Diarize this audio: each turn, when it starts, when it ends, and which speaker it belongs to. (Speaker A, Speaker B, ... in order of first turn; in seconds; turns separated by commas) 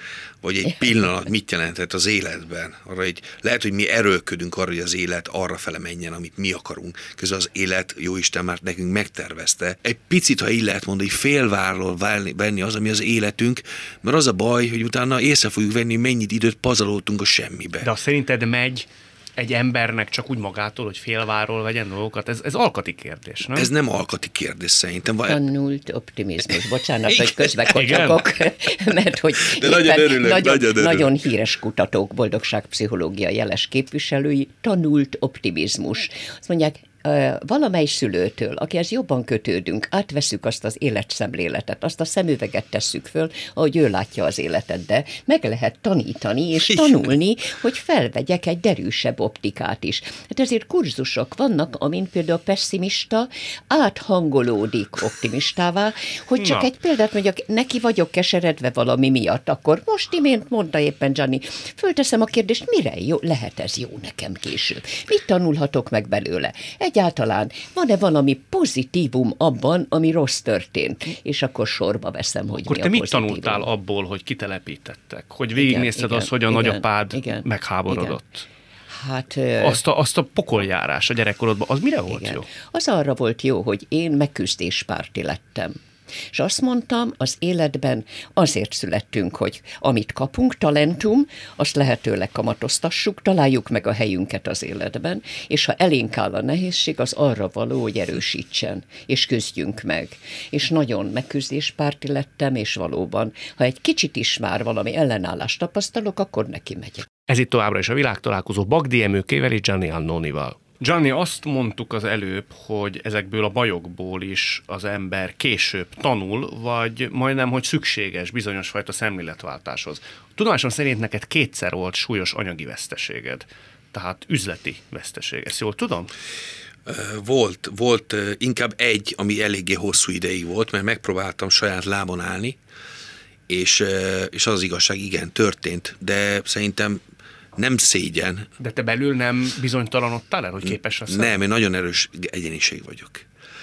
Speaker A: 0.4-17.9, Speaker B: 17.8-23.7, Speaker A: 23.5-25.4, Speaker C: 25.3-73.7, Speaker B: 27.7-28.2, Speaker A: 29.4-31.1, Speaker B: 56.4-56.7, Speaker B: 72.6-78.5, Speaker C: 75.5-78.1, Speaker C: 78.9-79.8, Speaker B: 79.6-82.5, Speaker C: 82.1-85.8, Speaker C: 86.3-107.1, Speaker B: 107.3-126.1, Speaker A: 126.8-132.6, Speaker A: 133.5-137.0, Speaker A: 137.6-138.5, Speaker B: 138.6-141.4, Speaker A: 140.7-143.2